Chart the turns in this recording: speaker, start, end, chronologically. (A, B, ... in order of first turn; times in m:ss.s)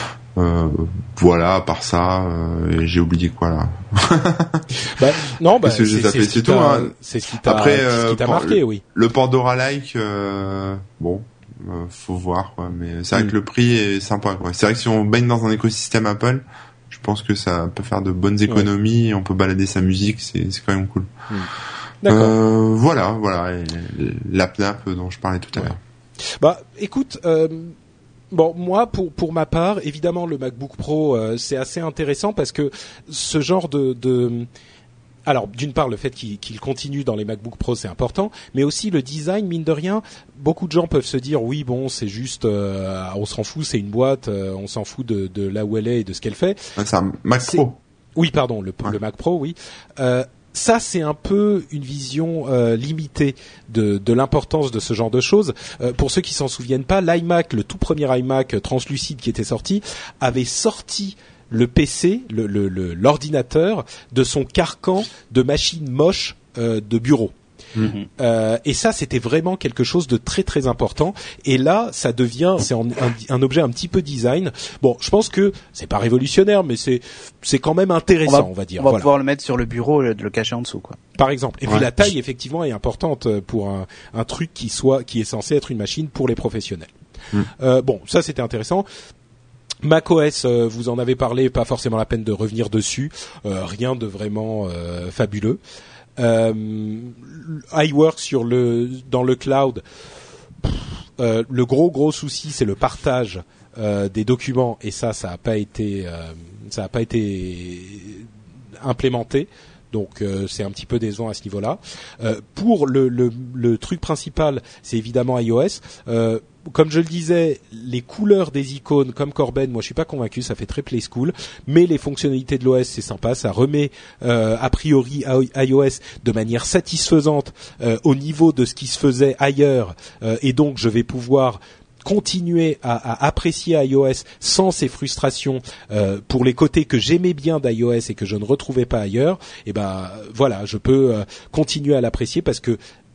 0:00.4-0:04.8 A
0:04.8-0:08.8 B
0:05.6-0:21.1 A
0:22.0-0:22.4 B
0:22.1-0:25.8 A
0:26.4-0:27.8 B
0:28.3-0:34.5 B
0:35.3-0:46.6 B
0:46.8-0:47.8 A
0:48.2-1:07.3 B
1:08.2-1:19.1 B
1:18.3-1:21.0 C
1:21.2-1:26.9 B
1:27.6-1:28.9 B
1:29.8-1:35.6 B
1:36.2-1:39.8 B
1:40.6-1:48.3 B
1:48.8-2:22.8 B